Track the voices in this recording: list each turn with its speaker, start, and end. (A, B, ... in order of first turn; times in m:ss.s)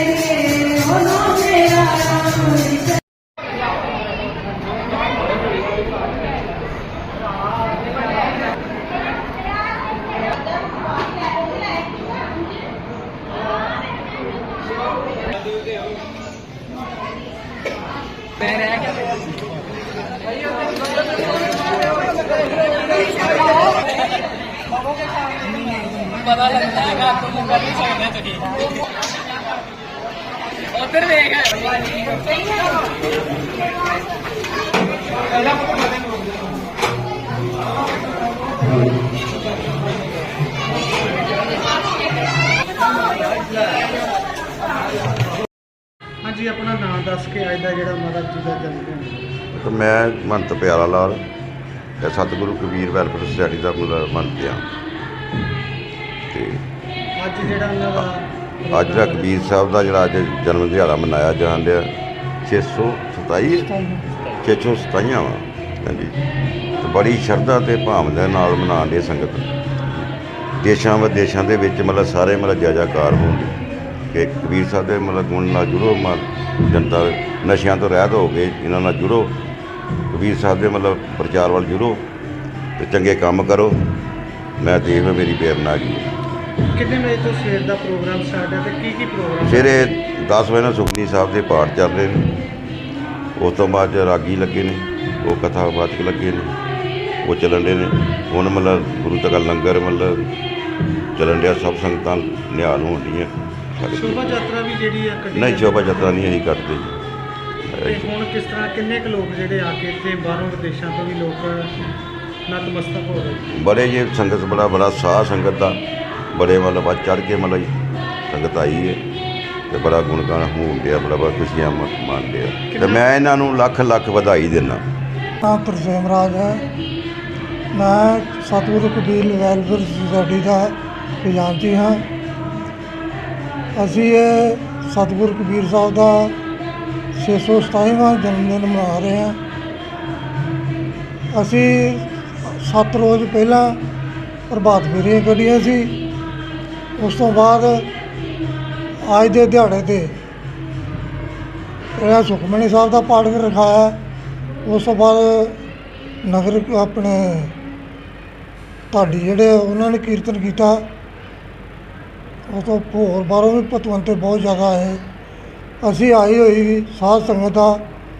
0:46.2-0:49.4 A
0:49.5-0:51.2 B
0:52.0-0:54.6 B
0:56.3-0:56.6 B
0:57.2-0:59.6 A
0:58.7-1:01.9 B
1:02.4-1:03.7 B
1:03.6-1:04.0 C
1:04.4-1:06.1 B
1:06.8-1:10.0 B
1:10.6-1:13.5 B
1:14.1-1:19.3 B
1:20.1-1:22.0 B
1:22.8-1:23.8 B
1:24.6-1:26.0 B
1:26.7-1:30.0 A
1:29.4-1:32.3 B
1:33.4-1:36.5 B
1:37.2-1:40.2 B
1:41.2-1:44.4 B
1:43.9-1:46.3 A
1:45.3-1:46.9 B
1:47.7-1:48.1 B
1:47.8-1:51.7 A
1:52.5-1:53.4 A
1:53.5-1:55.8 B
1:56.3-1:57.7 B
1:58.3-1:59.0 B
1:59.7-2:04.8 B
2:02.7-2:03.0 A
2:05.4-2:06.6 C
2:07.7-2:12.1 C
2:13.7-2:16.4 C
2:17.1-2:19.4 C
2:21.3-2:23.8 C
2:24.5-2:26.0 C
2:27.0-2:27.9 C
2:29.0-2:30.1 C
2:31.9-2:34.0 C
2:34.6-2:35.6 C
2:36.2-2:37.6 C
2:38.9-2:40.9 C
2:42.5-2:45.0 C
2:45.8-2:47.8 C